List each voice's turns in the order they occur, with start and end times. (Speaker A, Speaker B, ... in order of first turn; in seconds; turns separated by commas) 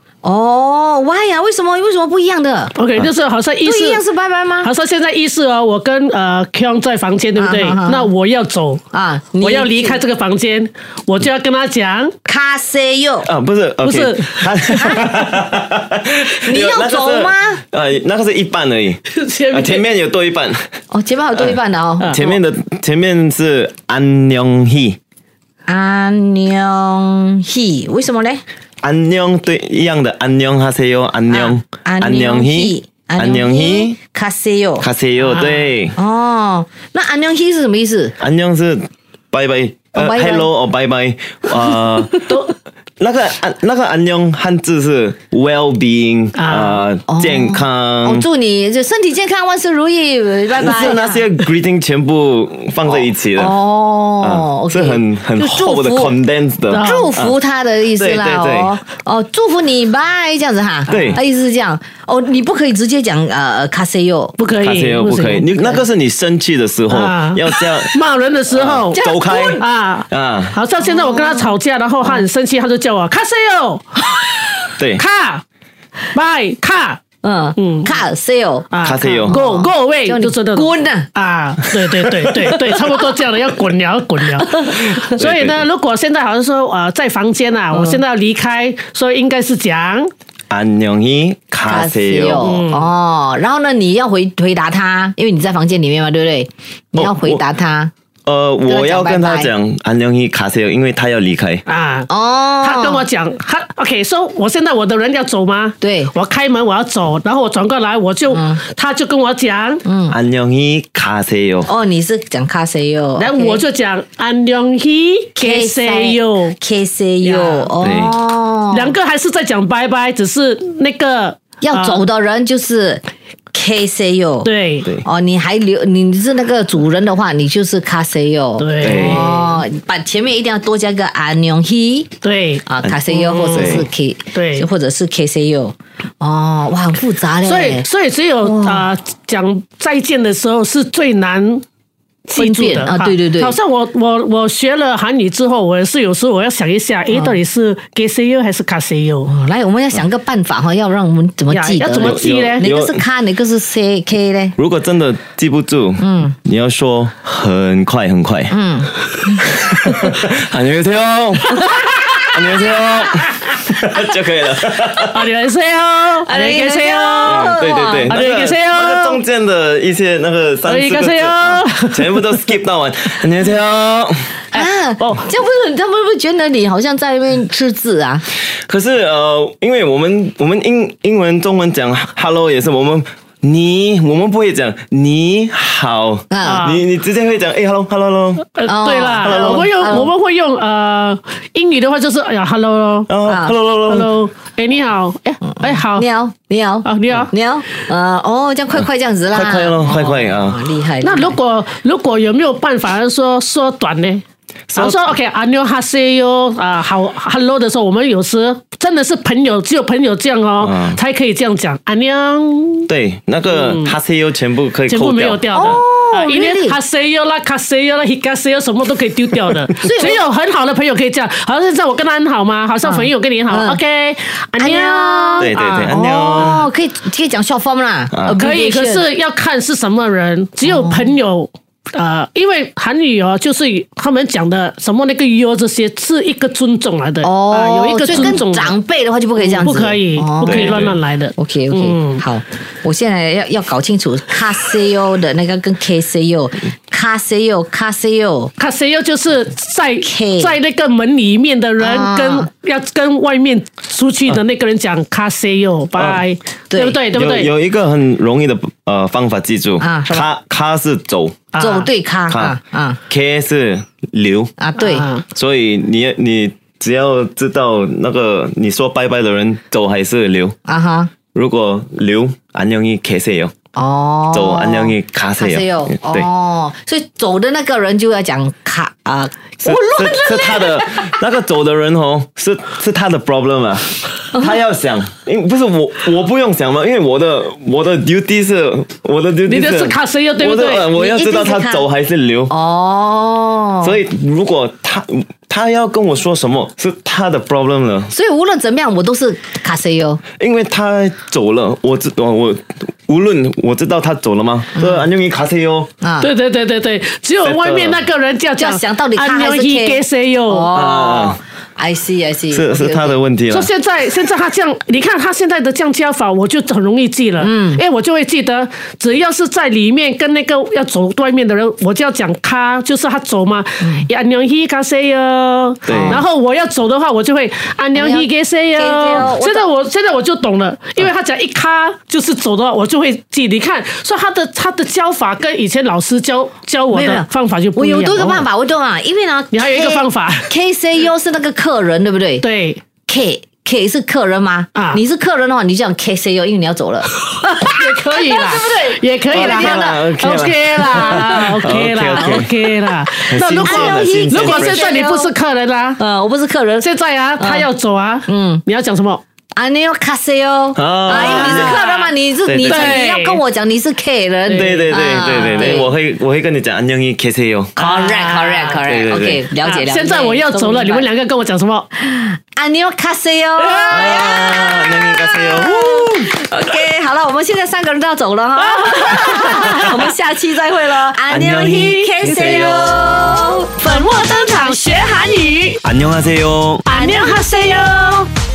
Speaker A: 0.2-2.8, Speaker B: 2.8-4.0, Speaker A: 3.6-4.7, Speaker B: 4.6-8.8, Speaker A: 7.4-8.1, Speaker A: 8.9-10.0, Speaker B: 9.4-12.1, Speaker A: 12.2-13.3, Speaker C: 13.2-20.6, Speaker B: 13.8-15.0, Speaker A: 16.4-17.6, Speaker B: 19.1-19.8, Speaker A: 20.9-22.3, Speaker C: 21.3-25.0, Speaker B: 22.0-22.3, Speaker A: 25.7-28.4, Speaker C: 28.8-34.0, Speaker A: 31.3-38.1, Speaker C: 34.8-36.0, Speaker C: 38.2-42.3, Speaker A: 39.9-40.5, Speaker B: 42.3-42.5, Speaker C: 43.0-48.3, Speaker B: 46.4-46.8, Speaker A: 47.1-51.2, Speaker C: 50.5-53.6, Speaker A: 53.4-56.2, Speaker C: 54.2-57.4, Speaker B: 56.7-57.1, Speaker A: 56.7-64.4, Speaker C: 57.9-58.8, Speaker C: 60.9-61.2, Speaker B: 64.4-65.4, Speaker C: 64.6-68.0, Speaker A: 65.1-65.8, Speaker B: 66.9-74.0, Speaker C: 68.5-70.5, Speaker A: 68.9-69.6, Speaker A: 70.8-71.5, Speaker B: 75.0-75.4, Speaker B: 76.1-77.0, Speaker A: 77.2-81.1, Speaker B: 77.5-78.0, Speaker B: 78.7-90.1, Speaker C: 78.8-79.4, Speaker A: 82.4-82.8, Speaker A: 84.4-85.1, Speaker C: 85.0-85.6, Speaker A: 87.7-88.0, Speaker C: 90.5-92.5, Speaker A: 91.7-97.9, Speaker B: 92.4-92.9, Speaker C: 96.9-97.4, Speaker C: 98.2-101.6, Speaker A: 98.7-99.5, Speaker B: 101.7-109.8, Speaker A: 102.1-103.0, Speaker A: 105.8-106.1, Speaker A: 108.3-108.6, Speaker A: 109.8-110.2, Speaker C: 110.1-111.7, Speaker A: 111.7-113.6, Speaker B: 113.2-116.6, Speaker A: 115.4-118.9, Speaker B: 117.2-117.7, Speaker C: 117.8-118.2, Speaker B: 118.7-122.0, Speaker A: 121.6-123.0, Speaker A: 123.5-124.5, Speaker B: 124.4-124.9, Speaker A: 125.0-132.1, Speaker B: 128.6-129.6, Speaker C: 128.8-129.3, Speaker B: 132.2-134.7, Speaker A: 132.7-137.9, Speaker C: 132.8-133.9, Speaker B: 137.4-141.6, Speaker A: 138.4-138.9, Speaker B: 142.3-149.3, Speaker A: 142.3-143.6, Speaker A: 147.1-147.4, Speaker A: 149.2-154.6, Speaker B: 151.5-152.7, Speaker C: 151.9-153.0, Speaker C: 154.6-158.5, Speaker A: 156.0-156.4, Speaker A: 158.5-160.1, Speaker C: 159.5-165.2, Speaker B: 165.1-169.2, Speaker A: 166.2-168.2, Speaker C: 167.2-174.4, Speaker B: 170.6-172.2, Speaker B: 174.5-175.3, Speaker A: 174.5-178.2, Speaker C: 178.5-188.5, Speaker A: 186.3-186.7, Speaker B: 186.4-186.8, Speaker B: 188.5-193.1, Speaker A: 188.7-190.1, Speaker C: 189.2-190.1, Speaker C: 193.1-194.1, Speaker A: 193.2-193.6, Speaker B: 193.8-196.1, Speaker A: 195.5-201.4, Speaker B: 196.8-197.3, Speaker C: 199.3-200.7, Speaker B: 201.0-204.2, Speaker C: 204.7-205.2, Speaker B: 204.8-212.9, Speaker C: 210.6-211.0, Speaker C: 212.9-215.8, Speaker B: 213.5-213.9, Speaker B: 214.9-226.6, Speaker A: 215.5-216.8, Speaker A: 219.8-220.2, Speaker A: 222.8-223.8, Speaker A: 224.6-229.0, Speaker C: 225.4-226.6, Speaker C: 228.1-228.4, Speaker B: 228.4-238.8, Speaker A: 230.6-231.1, Speaker A: 237.2-248.5, Speaker B: 239.4-242.2, Speaker C: 240.4-240.9, Speaker B: 248.6-257.5, Speaker A: 250.0-250.6, Speaker A: 251.8-252.5, Speaker C: 256.0-256.2, Speaker A: 256.7-257.0, Speaker C: 257.1-261.5, Speaker A: 259.8-260.3, Speaker B: 261.5-261.9, Speaker A: 261.6-263.0, Speaker C: 262.3-262.6, Speaker C: 263.1-264.5, Speaker A: 264.6-265.1, Speaker B: 264.8-265.2, Speaker C: 265.2-270.5, Speaker A: 270.7-271.1, Speaker C: 271.3-273.5, Speaker A: 273.8-281.1, Speaker C: 274.3-276.3, Speaker C: 279.6-292.5, Speaker B: 289.5-290.9, Speaker A: 290.9-291.9, Speaker A: 292.5-294.0, Speaker C: 293.8-298.1, Speaker A: 298.1-300.2, Speaker C: 300.4-305.9, Speaker A: 304.8-305.0, Speaker A: 306.0-306.3, Speaker B: 306.2-310.7, Speaker C: 307.4-308.0, Speaker A: 308.6-313.2, Speaker C: 310.7-311.4, Speaker C: 312.5-313.7, Speaker B: 313.5-338.4, Speaker A: 317.4-317.8, Speaker A: 323.8-324.1, Speaker C: 325.9-326.2, Speaker A: 325.9-326.2, Speaker A: 327.9-329.7, Speaker A: 336.9-342.4, Speaker B: 339.5-340.5, Speaker B: 342.4-342.8, Speaker A: 343.1-350.1, Speaker B: 344.8-345.0, Speaker B: 347.1-356.0, Speaker C: 349.3-352.6, Speaker A: 350.9-352.4, Speaker C: 353.3-354.9, Speaker A: 353.5-355.3, Speaker A: 356.0-356.9, Speaker B: 356.8-359.2, Speaker A: 357.4-357.7, Speaker A: 358.3-358.6, Speaker A: 359.6-365.9, Speaker C: 360.8-361.8, Speaker B: 361.1-363.4, Speaker C: 362.4-363.1, Speaker B: 364.5-365.8, Speaker C: 364.5-367.8, Speaker A: 367.8-371.1, Speaker B: 367.8-368.8, Speaker C: 368.8-369.4, Speaker B: 369.6-371.9, Speaker A: 372.0-385.1, Speaker B: 373.6-374.4, Speaker C: 373.9-376.3, Speaker B: 378.6-380.1, Speaker C: 381.3-383.3, Speaker B: 383.4-385.8, Speaker C: 385.8-386.9, Speaker B: 386.9-388.3, Speaker A: 386.9-388.0